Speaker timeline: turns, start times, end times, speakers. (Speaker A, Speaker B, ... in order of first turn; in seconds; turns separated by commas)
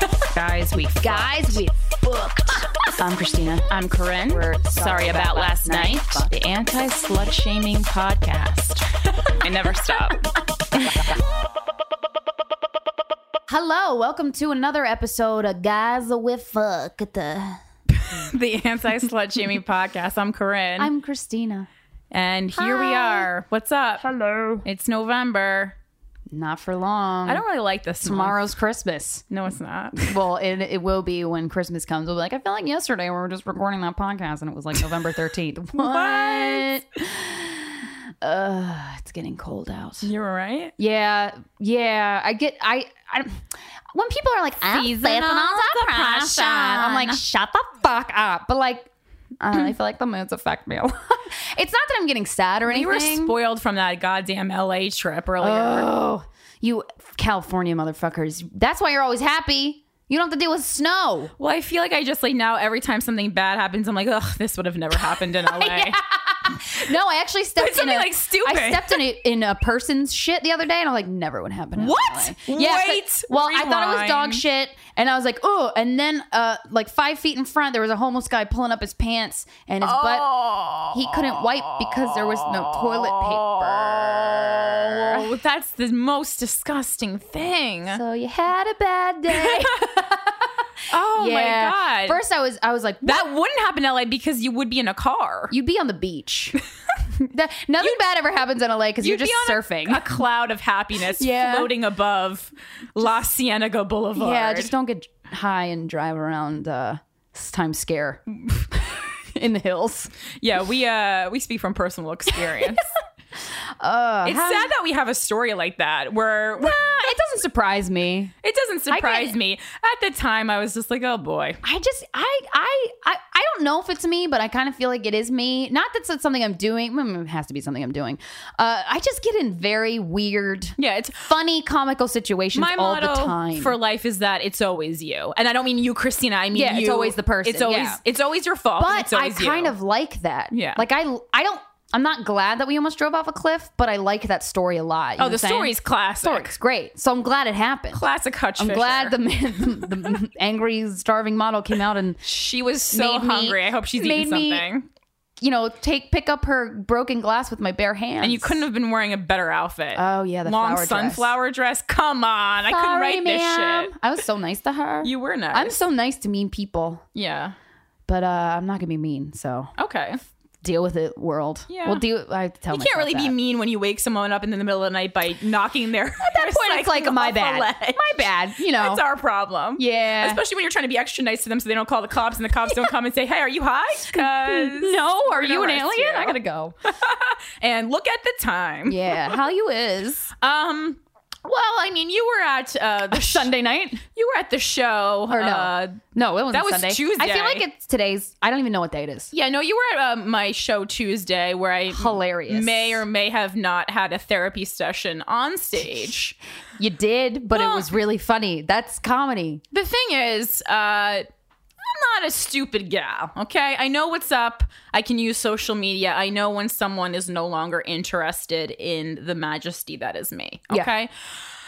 Speaker A: 0.2-1.5, Speaker B: 0.7-2.7, Speaker A: 3.0-10.2, Speaker B: 4.3-6.3, Speaker A: 10.7-11.1, Speaker B: 13.5-17.6, Speaker A: 17.9-20.9, Speaker B: 20.8-21.7, Speaker A: 22.1-24.0, Speaker B: 22.6-23.3, Speaker B: 24.0-24.6, Speaker A: 24.6-25.8, Speaker B: 26.3-27.4, Speaker A: 27.2-28.5, Speaker B: 28.0-29.2, Speaker A: 29.3-30.1, Speaker B: 29.9-40.1, Speaker A: 35.7-36.7, Speaker A: 40.0-40.7, Speaker B: 40.8-48.9, Speaker A: 44.7-47.2, Speaker B: 49.4-53.3, Speaker A: 52.7-55.9, Speaker B: 55.4-61.3, Speaker A: 61.4-66.0, Speaker B: 65.0-80.3, Speaker A: 67.6-69.0, Speaker A: 71.8-74.4, Speaker A: 79.8-88.0, Speaker B: 80.8-85.3, Speaker B: 87.9-90.5, Speaker A: 89.3-89.7, Speaker A: 90.9-92.2, Speaker B: 91.1-93.3, Speaker A: 93.0-95.5, Speaker B: 95.5-96.5, Speaker B: 97.1-100.0, Speaker A: 99.0-104.7, Speaker B: 101.2-101.7, Speaker B: 104.1-110.1, Speaker A: 110.4-112.8, Speaker B: 112.3-112.8, Speaker B: 113.8-114.7, Speaker A: 114.2-117.1, Speaker B: 116.6-118.3, Speaker A: 118.4-121.6, Speaker B: 118.9-119.3, Speaker B: 121.6-133.8, Speaker A: 130.8-131.3, Speaker A: 132.5-139.7, Speaker B: 136.5-138.0, Speaker B: 138.8-148.0, Speaker A: 140.5-140.8, Speaker A: 145.2-146.5, Speaker A: 147.9-149.1, Speaker B: 148.6-152.2, Speaker A: 152.2-154.9, Speaker B: 152.9-154.7, Speaker B: 155.4-158.6, Speaker A: 158.2-163.9, Speaker B: 159.9-161.3, Speaker B: 162.7-167.0, Speaker A: 165.0-165.8, Speaker A: 167.1-167.5, Speaker B: 168.1-169.7, Speaker A: 169.8-170.2, Speaker B: 170.6-173.3, Speaker A: 171.7-172.0, Speaker A: 172.7-178.2, Speaker B: 176.2-179.0, Speaker A: 178.7-189.4, Speaker B: 179.8-180.4, Speaker B: 184.1-186.8, Speaker B: 188.9-190.3, Speaker A: 190.4-193.5, Speaker B: 193.1-194.0, Speaker A: 194.1-197.6, Speaker B: 195.3-199.3, Speaker A: 199.3-206.4, Speaker B: 201.9-203.0, Speaker B: 206.8-209.6, Speaker A: 207.5-207.9, Speaker A: 209.7-211.3, Speaker A: 211.8-221.1